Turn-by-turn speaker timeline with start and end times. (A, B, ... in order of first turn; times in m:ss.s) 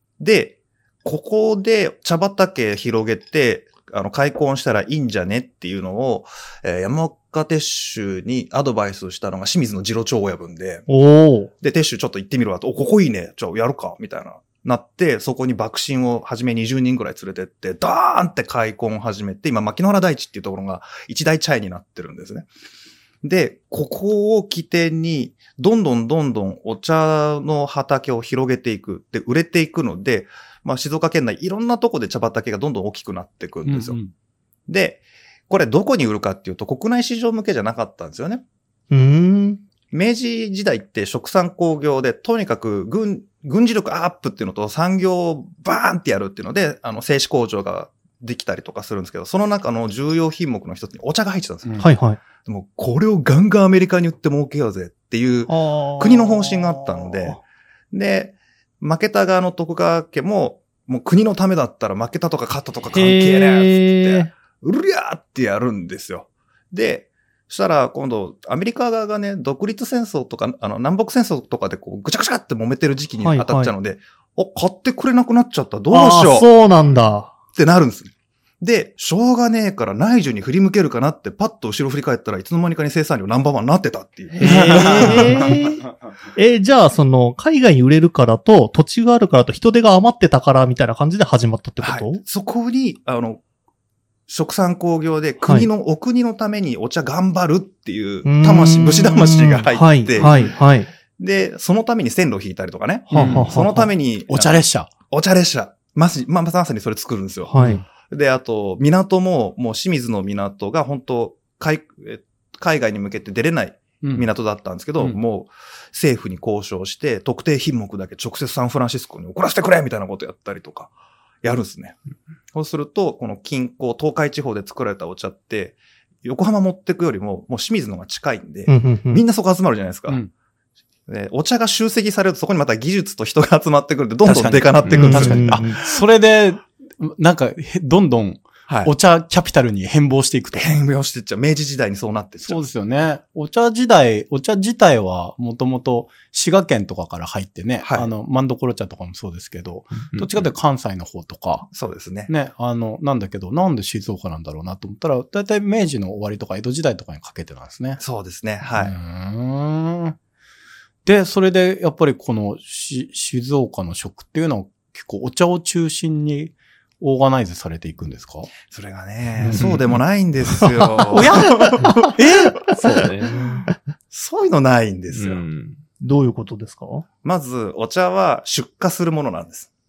0:00.2-0:10.9 A
0:10.9-0:11.5 B
0:11.6-0:22.5 A
0:23.2-0:34.0 A
0:33.6-0:34.1 C
0:34.7-0:38.4 A
0:38.9-0:39.6 B
0:39.9-0:51.9 A
0:51.8-0:52.2 B
0:52.4-0:57.4 A
0:55.5-0:57.4 B
0:57.9-1:16.5 A
1:02.9-1:04.3 B
1:13.2-1:13.7 B
1:15.9-1:17.3 B
1:17.6-1:25.6 A
1:24.4-1:25.8 B
1:24.4-1:25.7 C
1:26.4-1:32.2 B
1:31.8-1:33.4 A
1:34.3-1:40.6 A
1:38.2-1:40.9 B
1:40.2-1:40.5 C
1:41.2-2:02.0 A
1:43.1-1:43.7 C
1:43.1-1:43.9 B
1:44.3-1:44.9 C
1:47.5-1:47.8 B
1:47.6-1:47.8 C
1:54.0-1:54.3 C
2:02.5-2:10.2 A
2:08.7-2:09.2 B
2:11.1-2:16.0 A
2:14.2-2:20.8 C
2:15.0-2:15.8 B
2:18.7-2:18.9 A
2:20.5-2:22.6 A
2:22.5-2:31.7 C
2:27.8-2:28.1 A
2:30.1-2:30.5 D
2:31.7-2:32.3 A
2:32.3-2:38.0 C
2:38.0-2:39.0 A
2:38.8-2:40.2 C
2:41.0-2:48.5 C
2:48.7-2:51.9 A
2:49.4-2:49.8 D
2:50.6-2:52.1 B
2:51.1-2:52.7 C
2:52.8-2:53.6 D
2:54.1-2:55.4 A
2:55.1-2:55.8 D
2:56.0-2:57.0 B
2:57.2-2:59.7 A